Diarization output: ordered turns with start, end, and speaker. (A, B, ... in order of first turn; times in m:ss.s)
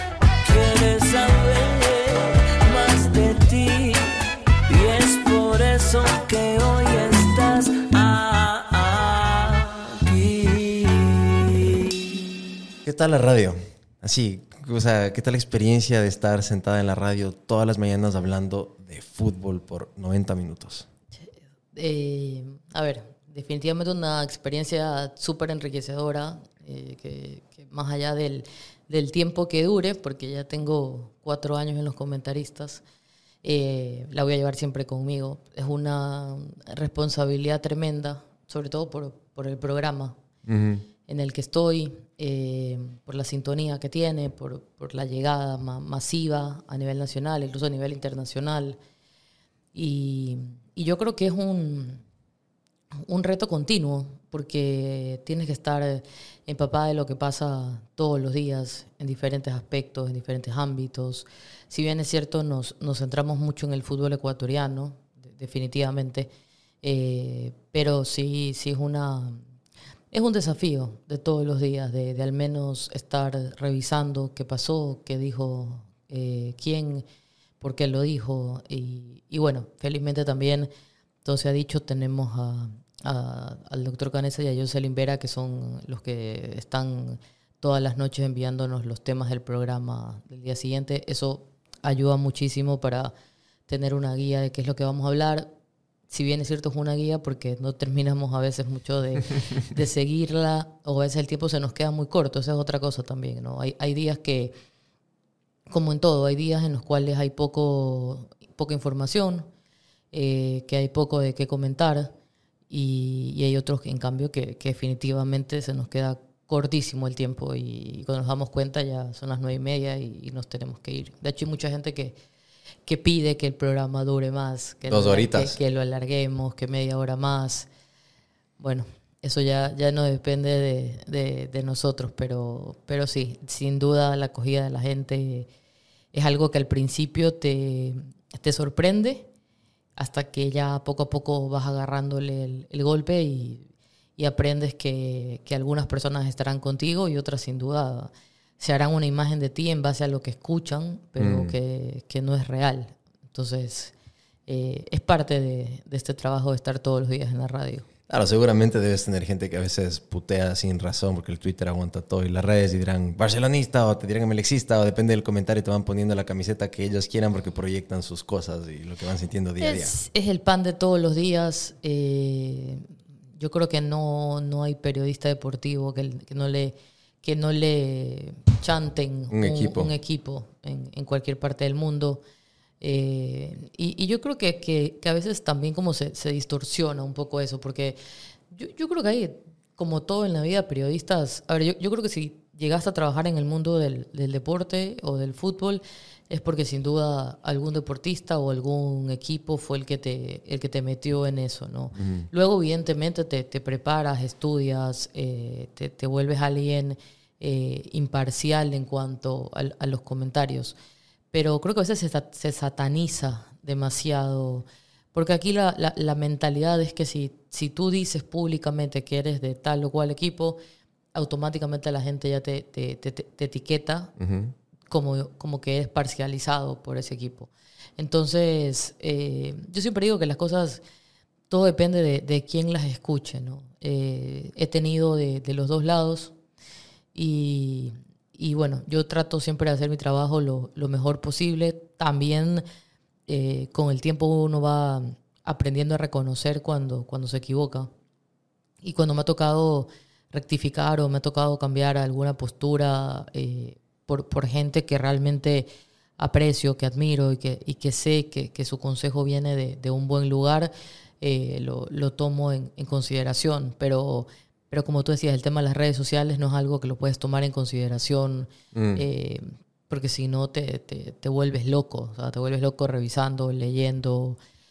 0:00.4-0:12.1 A
0:12.8-0:20.9 B
0:21.2-0:32.8 C
0:33.4-0:40.2 C
0:40.4-0:40.8 B
0:41.0-0:48.8 C
0:49.7-0:52.0 C
0:53.0-1:06.3 C
1:06.8-1:09.4 C
1:10.1-1:17.0 C
1:17.6-1:20.7 C
1:21.2-1:33.1 C
1:33.7-1:35.5 C
1:36.1-1:44.5 C
1:45.7-1:49.5 C
1:50.1-1:52.1 C
1:52.7-2:02.2 C
2:02.8-2:07.7 C
2:04.9-2:05.6 B
2:08.6-2:15.5 C
2:16.1-2:19.3 C
2:20.0-2:33.9 C
2:31.2-2:31.5 B
2:34.5-2:37.8 C
2:38.1-2:49.9 B
2:49.6-2:52.9 C
2:53.4-3:02.2 C
2:59.3-2:59.9 B
3:02.8-3:08.0 C
3:08.5-3:30.7 C
3:21.9-3:22.3 B
3:31.3-3:40.6 C
3:41.1-3:44.1 C
3:44.2-3:44.5 B
3:44.9-3:50.8 C
3:51.5-3:56.3 C
3:57.1-4:02.6 C
4:03.3-4:07.9 C
4:08.8-4:15.7 C
4:16.2-4:34.4 C
4:28.7-4:29.0 B